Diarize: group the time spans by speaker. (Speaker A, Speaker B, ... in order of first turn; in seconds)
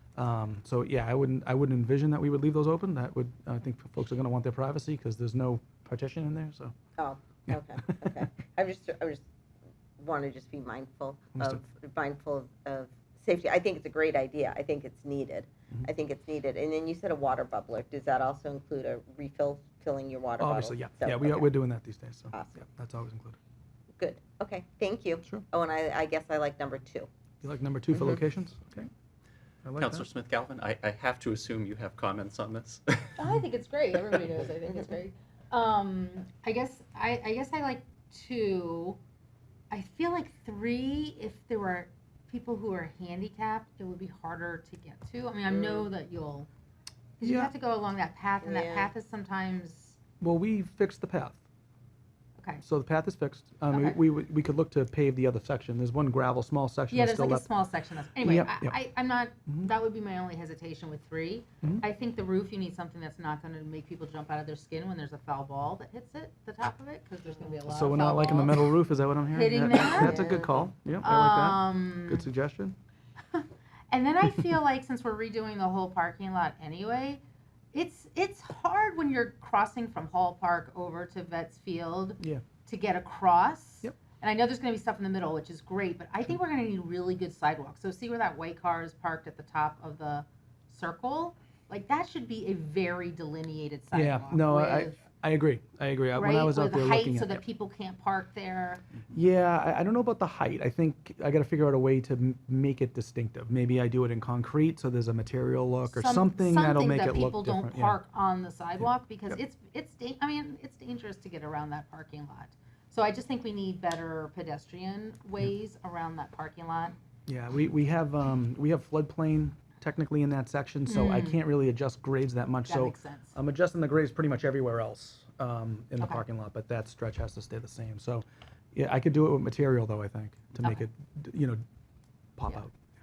Speaker A: 0.1-6.7, 7.5-8.3, 11.4-11.6, 20.4-23.4, 27.4-28.9, 29.6-30.1, 47.2-47.5, 50.2-51.4, 52.6-57.5, 58.2-58.8, 67.7-72.8, 93.9-97.4, 99.1-108.0, 108.8-109.4, 117.3-131.6, 132.4-132.7
Speaker B: 7.0-9.2, 10.0-21.5, 22.3-22.6, 23.9-27.1, 27.9-28.2, 45.5-45.9, 48.4-48.9, 69.9-70.7
Speaker C: 29.8-33.2
Speaker D: 33.2-39.0, 39.7-46.5, 47.2-50.0, 52.4-52.6, 53.7-54.0, 56.9-68.8, 69.3-70.3, 71.0-72.3, 73.3-77.2, 77.7-95.0, 96.1-98.8, 105.9-117.0, 120.9-121.4, 122.7-123.3